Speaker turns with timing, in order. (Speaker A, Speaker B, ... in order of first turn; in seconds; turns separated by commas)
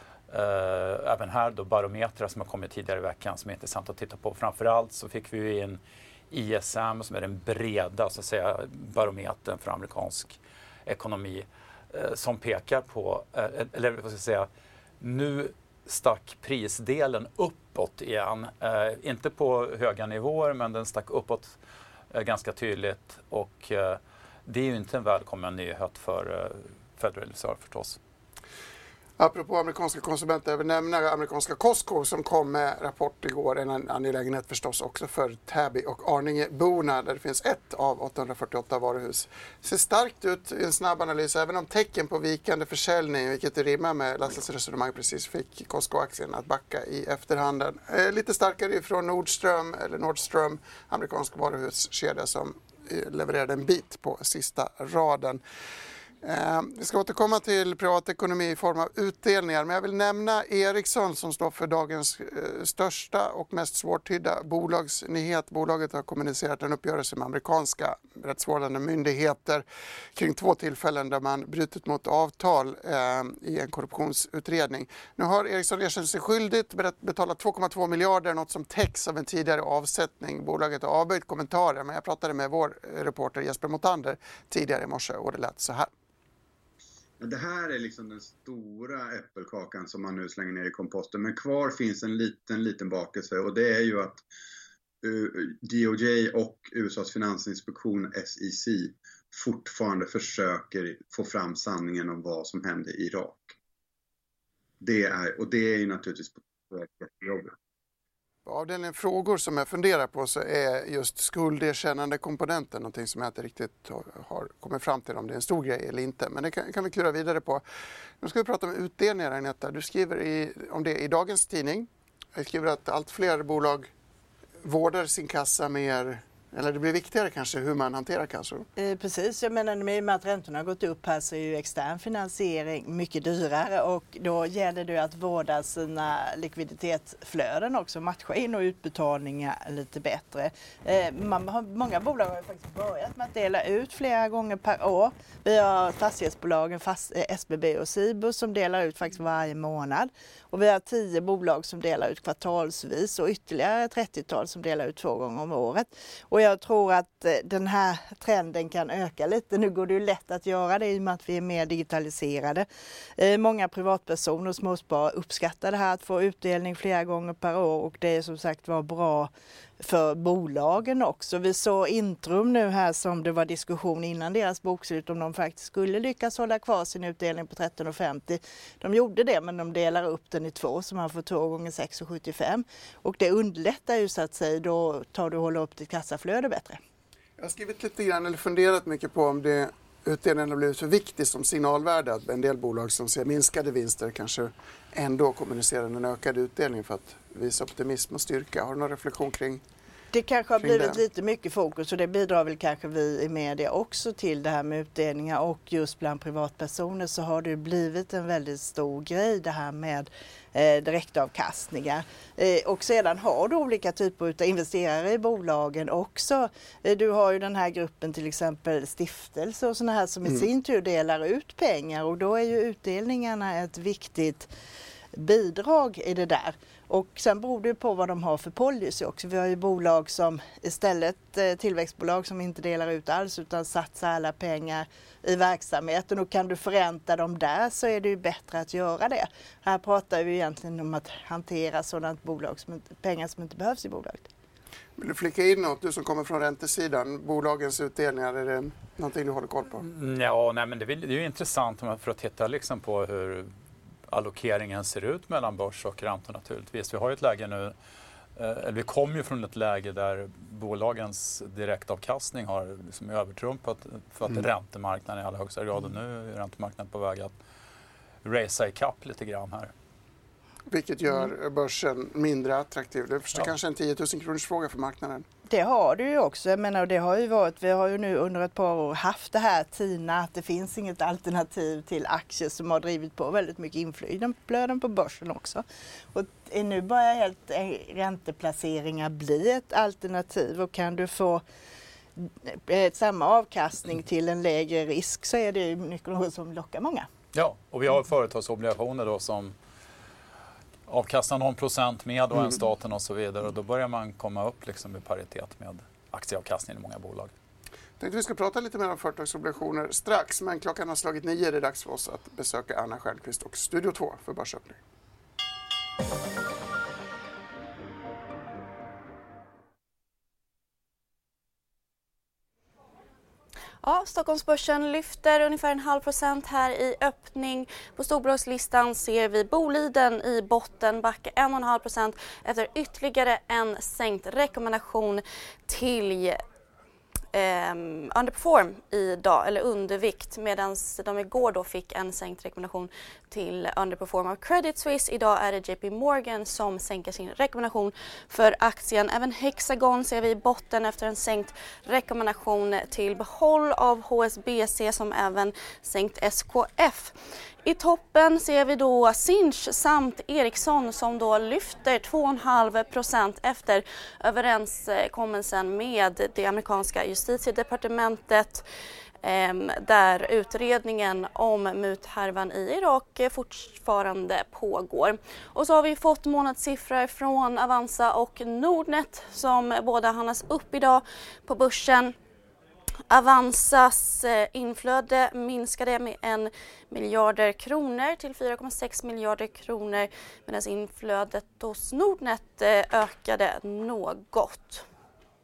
Speaker A: 0.3-14.5, Speaker A: 15.0-21.6, Speaker A: 22.1-28.0, Speaker B: 29.2-55.4, Speaker B: 56.2-85.9, Speaker C: 87.2-94.2, Speaker C: 95.0-103.5, Speaker C: 104.8-107.5, Speaker B: 108.5-117.6, Speaker B: 118.2-123.9, Speaker B: 124.6-128.7, Speaker D: 128.8-162.7, Speaker D: 163.2-186.8, Speaker B: 187.4-199.6, Speaker D: 200.1-224.5, Speaker B: 200.6-201.0, Speaker D: 225.1-244.3, Speaker B: 245.0-249.8, Speaker A: 249.8-253.5, Speaker A: 254.1-257.7, Speaker A: 258.4-267.3, Speaker A: 268.2-269.7, Speaker B: 270.7-275.3, Speaker D: 275.5-291.4, Speaker D: 292.2-297.1, Speaker A: 297.3-299.6, Speaker A: 300.9-307.3, Speaker B: 308.0-314.8, Speaker E: 323.8-336.4, Speaker E: 337.3-357.1, Speaker E: 357.6-368.6, Speaker E: 369.2-382.1, Speaker E: 383.1-394.9